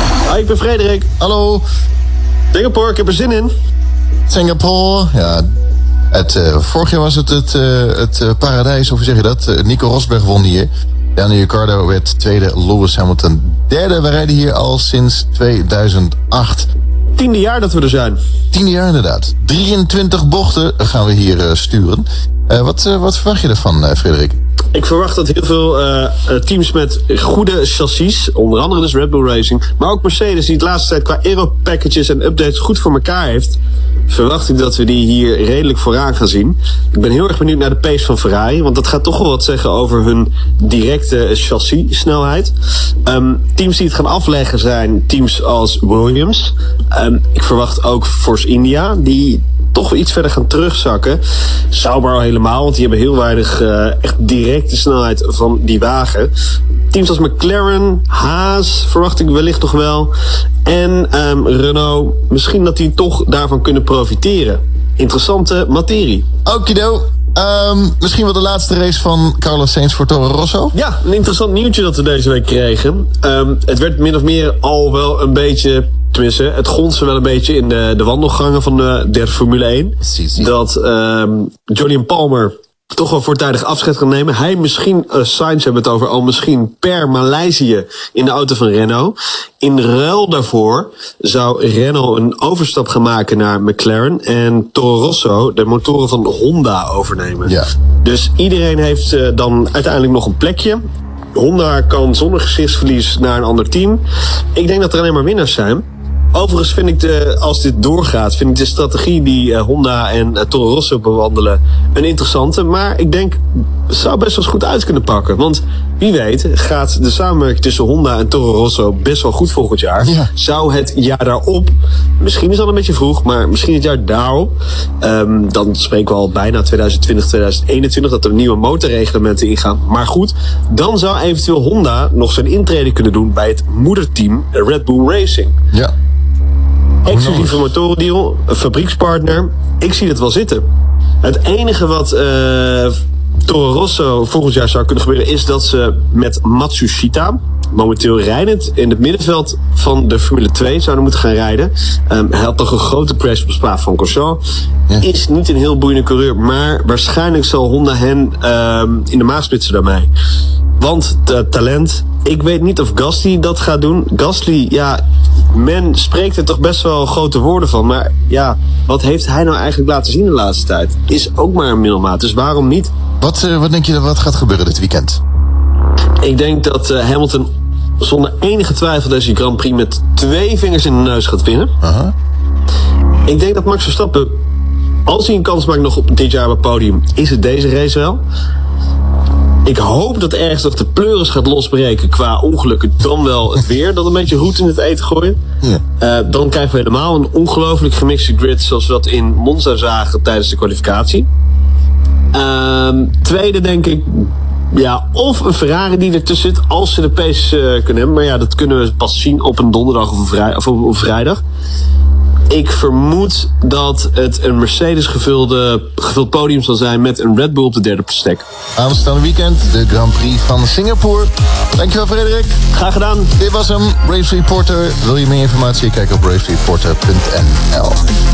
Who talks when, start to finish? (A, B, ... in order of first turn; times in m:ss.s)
0:00.2-0:01.1 A
0:01.2-0:01.6 B
0:02.5-0:03.5 A
0:04.3-0:05.5 B
0:06.1-0:16.7 B
0:17.2-0:18.2 A
0:18.5-0:24.4 B
0:24.7-0:51.2 A
0:51.7-0:56.3 A
0:56.9-1:00.1 A
1:00.6-1:06.2 A
1:06.4-1:10.7 B
1:10.7-1:40.8 A
1:20.0-1:20.5 B
1:41.3-1:44.0 A
1:44.5-2:15.5 A
2:00.0-2:00.3 B
2:17.0-2:20.6 A
2:17.0-2:17.6 B
2:21.2-2:34.4 A
2:35.0-2:40.1 A
2:40.8-2:45.0 A
2:45.5-2:52.9 A
2:53.2-2:55.2 B
2:56.2-2:57.5 A
2:58.0-3:01.7 A
3:01.8-3:02.1 B
3:03.2-3:04.4 A
3:05.1-3:08.2 A
3:09.6-3:15.4 A
3:16.0-3:21.3 A
3:22.3-3:31.4 A
3:32.5-3:38.4 A
3:38.8-3:42.6 B
3:42.7-3:43.3 A
3:43.4-3:48.1 B